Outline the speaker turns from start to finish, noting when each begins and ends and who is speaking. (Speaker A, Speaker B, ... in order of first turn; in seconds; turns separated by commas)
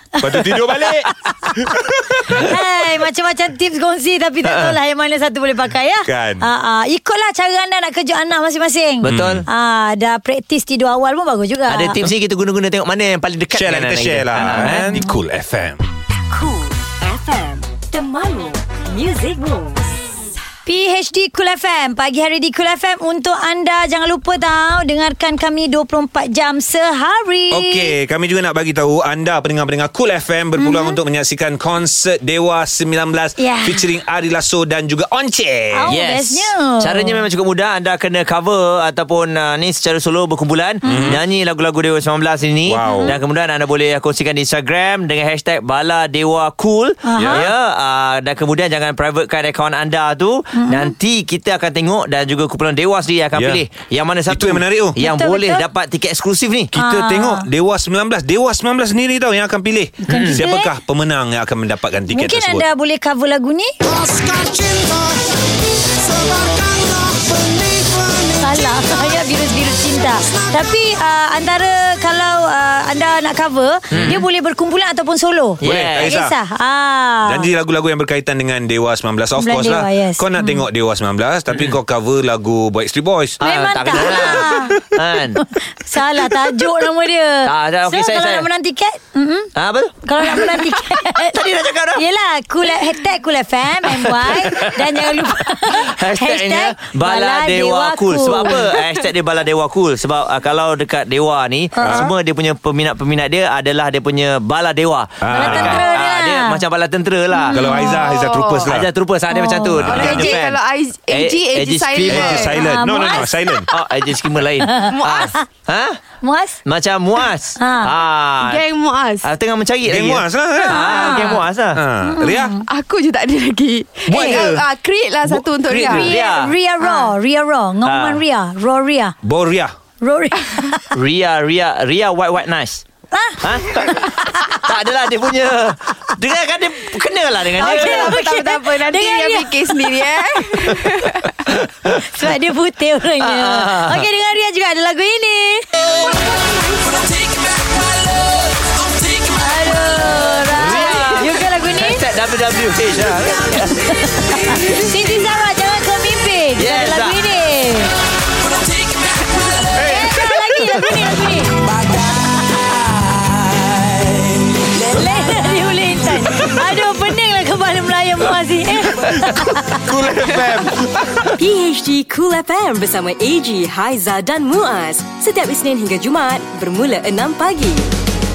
Speaker A: 0.2-0.6, Speaker B: 0.2-2.5, Speaker A: 2.3-12.0, Speaker C: 4.4-4.8, Speaker B: 6.0-6.5, Speaker C: 9.0-9.4, Speaker B: 9.1-9.5, Speaker C: 11.7-15.0, Speaker B: 13.5-15.9, Speaker D: 16.3-20.0, Speaker A: 20.7-27.9, Speaker B: 27.5-35.9, Speaker A: 30.6-31.0, Speaker A: 33.4-33.8, Speaker A: 35.7-37.2, Speaker C: 35.9-56.7, Speaker A: 40.9-41.1, Speaker B: 40.9-41.2, Speaker B: 42.7-43.1, Speaker A: 42.9-43.1, Speaker A: 47.1-47.5, Speaker B: 47.1-47.5, Speaker A: 50.6-50.9, Speaker B: 53.4-53.6, Speaker B: 54.3-55.0, Speaker A: 55.0-55.6, Speaker B: 56.7-62.6, Speaker A: 56.8-57.5, Speaker A: 60.1-60.7, Speaker C: 60.1-60.4, Speaker A: 62.1-63.7, Speaker A: 68.4-77.5, Speaker C: 73.9-74.2, Speaker C: 75.6-76.1, Speaker B: 75.6-76.3, Speaker B: 77.2-83.4, Speaker A: 79.4-80.6, Speaker A: 83.4-84.8, Speaker C: 83.4-85.4, Speaker B: 84.0-84.5, Speaker A: 85.4-89.5, Speaker C: 87.5-88.5, Speaker C: 89.5-92.0, Speaker A: 90.0-98.7, Speaker C: 93.9-107.6, Speaker A: 101.8-102.1, Speaker B: 101.8-102.1, Speaker B: 105.2-105.9, Speaker A: 105.3-106.6, Speaker A: 107.3-108.1, Speaker B: 107.5-108.9, Speaker E: 107.7-108.7, Speaker C: 108.7-110.6, Speaker A: 109.3-110.1, Speaker B: 109.7-110.4, Speaker E: 109.9-112.6, Speaker C: 111.1-112.5, Speaker B: 112.0-113.7, Speaker A: 112.5-113.6, Speaker C: 113.7-116.0, Speaker A: 114.6-115.4, Speaker E: 114.8-115.3, Speaker A: 116.2-116.6, Speaker C: 116.7-118.6, Speaker A: 117.6-117.9, Speaker E: 118.4-119.3, Speaker C: 119.2-121.8, Speaker B: 119.9-121.0, Speaker E: 120.6-121.5, Speaker A: 120.7-121.3, Speaker B: 121.8-122.6, Speaker A: 122.1-122.6, Speaker E: 122.7-126.1, Speaker B: 124.1-124.7, Speaker A: 124.1-124.4, Speaker C: 125.3-126.5, Speaker A: 125.9-129.1, Speaker C: 127.8-128.2, Speaker B: 129.2-129.7, Speaker A: 130.0-130.9, Speaker C: 130.9-132.8, Speaker A: 133.1-134.7, Speaker C: 133.4-138.2, Speaker A: 137.6-139.9, Speaker E: 137.6-141.3, Speaker A: 141.9-145.8, Speaker C: 143.2-144.1, Speaker A: 149.3-152.0, Speaker C: 150.5-154.7, Speaker A: 153.6-157.9, Speaker C: 156.6-157.2, Speaker B: 159.7-161.0, Speaker A: 159.8-161.6, Speaker C: 162.8-164.3, Speaker A: 164.9-169.8, Speaker B: 168.9-171.3, Speaker D: 171.4-177.9